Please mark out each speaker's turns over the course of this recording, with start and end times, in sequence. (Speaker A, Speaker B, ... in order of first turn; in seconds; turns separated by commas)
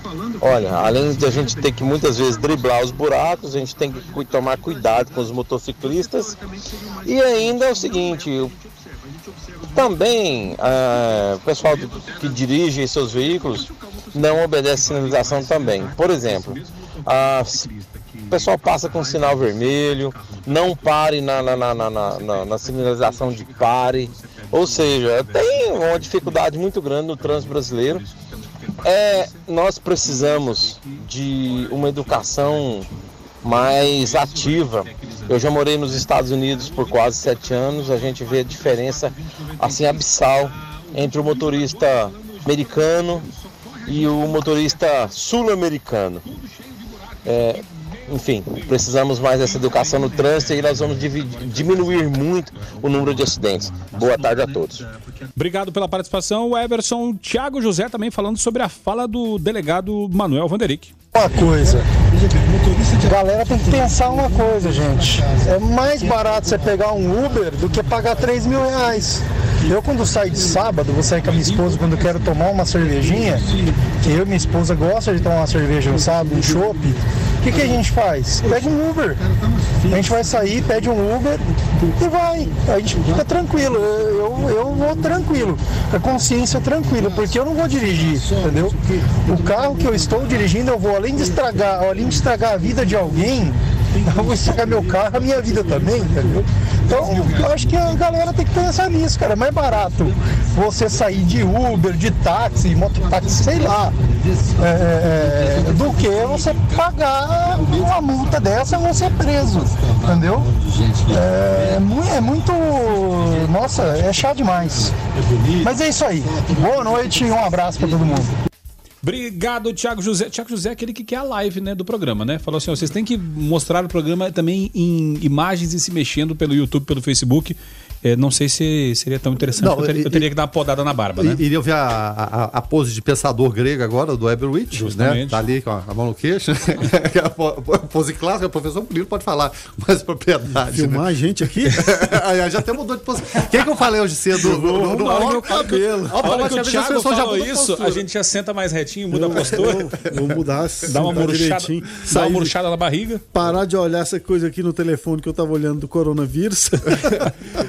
Speaker A: 0.4-6.3, Speaker A: 7.0-8.5, Speaker A: 9.7-17.7, Speaker A: 18.3-28.0, Speaker A: 28.8-32.9, Speaker A: 33.4-43.3, Speaker A: 43.9-46.2, Speaker A: 47.2-54.8, Speaker B: 55.4-60.9, Speaker C: 61.1-61.9, Speaker C: 63.0-73.5, Speaker C: 74.0-79.2, Speaker C: 79.9-104.0, Speaker C: 104.6-110.5, Speaker C: 111.1-114.9, Speaker C: 115.6-118.3, Speaker B: 119.0-131.4, Speaker D: 129.6-130.3, Speaker D: 131.2-141.0, Speaker B: 134.7-135.4, Speaker E: 140.7-142.0, Speaker D: 141.7-148.0, Speaker E: 144.3-146.4, Speaker B: 144.7-149.9, Speaker E: 149.1-152.5, Speaker D: 149.4-150.4, Speaker B: 150.9-153.2, Speaker E: 153.3-157.3